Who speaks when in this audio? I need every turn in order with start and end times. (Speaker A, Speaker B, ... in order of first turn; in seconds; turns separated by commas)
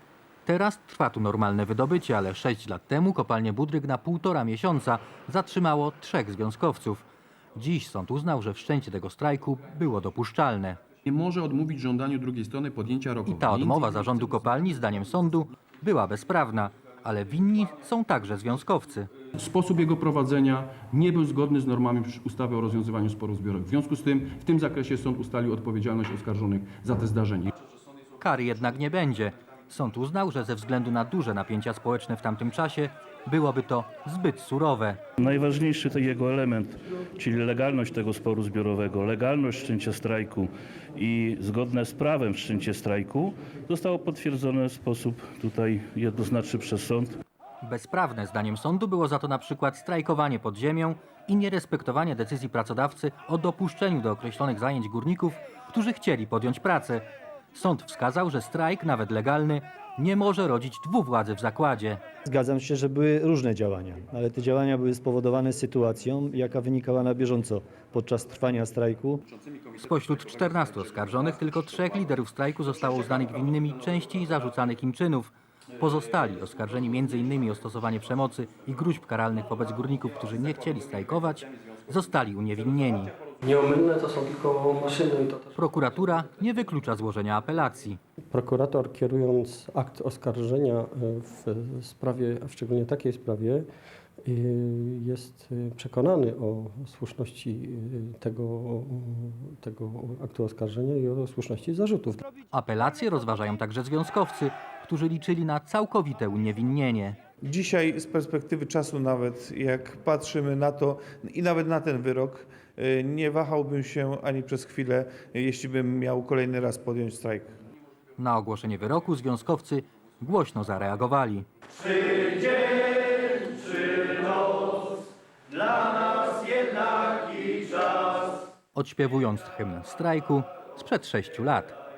Speaker A: 0.5-7.0, Speaker A: 7.5-10.8, Speaker B: 11.0-13.9, Speaker A: 13.3-19.1, Speaker B: 19.3-27.5, Speaker A: 28.2-35.0, Speaker C: 35.2-47.2, Speaker A: 47.6-62.0, Speaker D: 62.2-69.2, Speaker A: 69.8-83.1, Speaker E: 83.4-85.6, Speaker A: 85.5-88.0, Speaker E: 88.3-93.7, Speaker E: 94.2-102.2, Speaker A: 102.5-107.2, Speaker F: 107.4-117.5, Speaker A: 118.2-121.5, Speaker A: 128.7-131.8